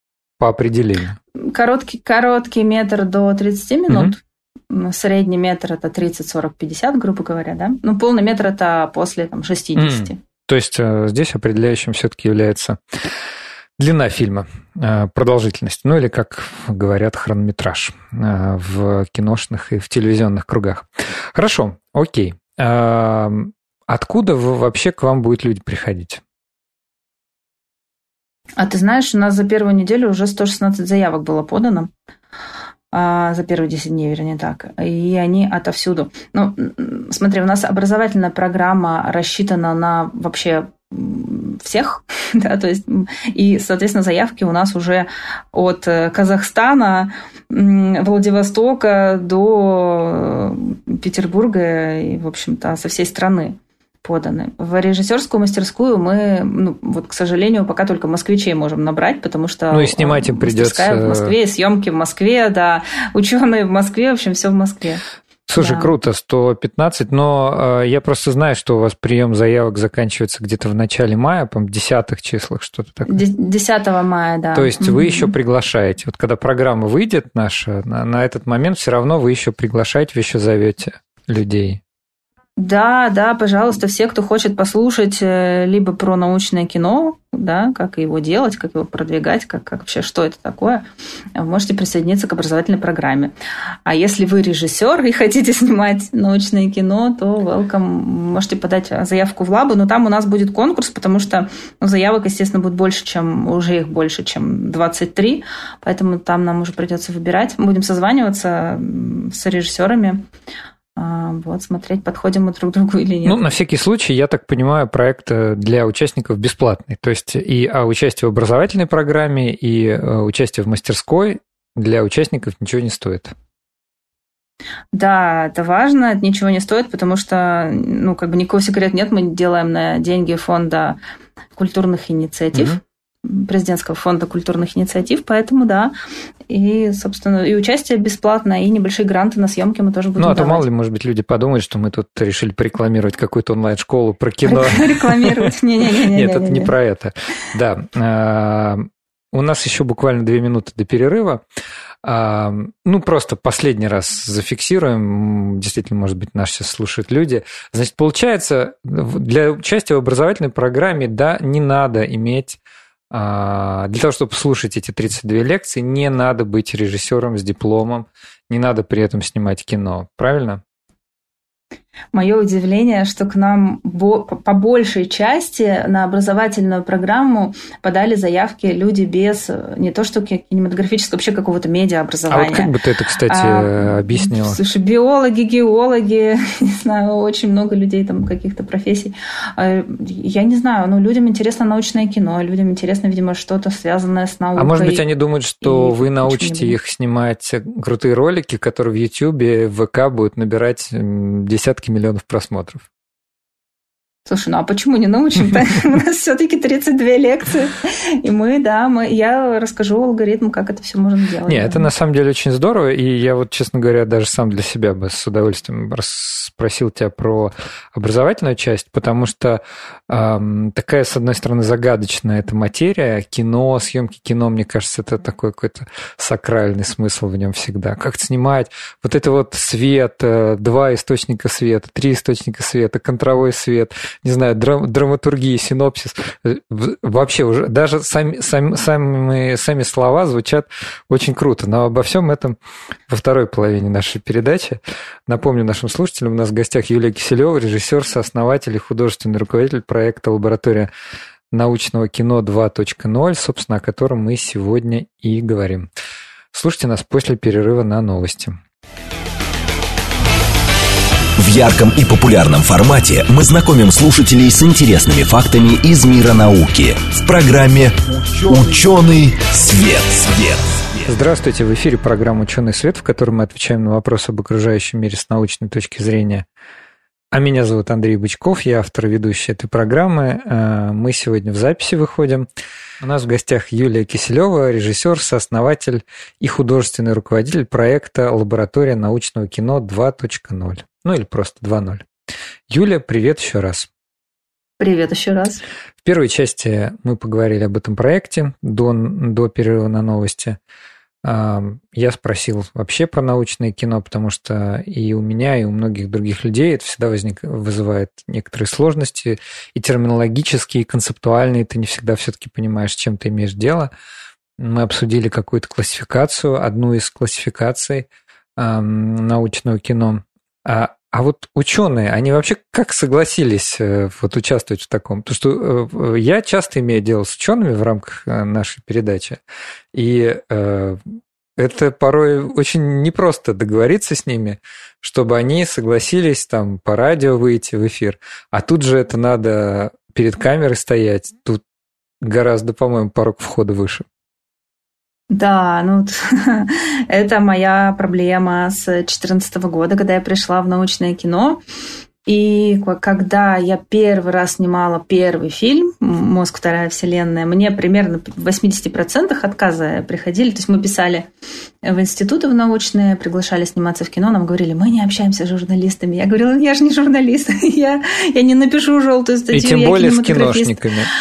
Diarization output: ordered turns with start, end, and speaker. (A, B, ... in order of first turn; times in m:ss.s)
0:00.4-0:01.2 A
0:01.4-0:10.2 B
0:03.9-0:04.1 A
0:09.8-0:13.0 A
0:13.8-0:26.2 A
0:28.6-0:31.9 B
0:32.9-1:05.0 B
0:59.7-1:01.4 A
1:05.5-1:13.2 A
1:05.6-1:05.9 B
1:13.1-1:15.3 B
1:14.6-1:21.8 A
1:22.6-1:30.8 B
1:31.4-1:33.3 B
1:33.9-1:50.2 B
1:51.0-1:53.4 B
1:53.2-2:03.4 A
2:04.9-2:11.0 B
2:11.6-2:15.9 B
2:12.5-2:12.8 A
2:16.5-2:20.6 B
2:20.2-2:31.4 A
2:24.4-2:26.7 B
2:32.0-2:42.6 A
2:43.1-2:50.6 A
2:52.1-3:02.7 B
3:02.3-3:04.6 A
3:03.3-3:15.0 B
3:14.6-3:22.8 A
3:15.6-3:16.8 B
3:24.3-3:31.9 B
3:31.5-4:02.6 A
4:03.1-4:10.9 A
4:11.5-4:15.9 A
4:16.5-4:18.6 A
4:21.4-4:31.1 C
4:31.1-4:36.5 A
4:37.3-4:42.5 A
4:43.0-4:52.1 A
4:52.7-4:53.9 A
4:54.8-4:55.6 B
4:56.0-5:00.6 A
5:01.2-5:13.9 A
5:14.6-5:29.4 A
5:29.9-5:41.6 A
5:42.2-5:44.0 A
5:45.3-5:51.6 B
5:52.3-6:01.3 B
6:01.8-6:10.8 B
6:09.5-6:11.1 A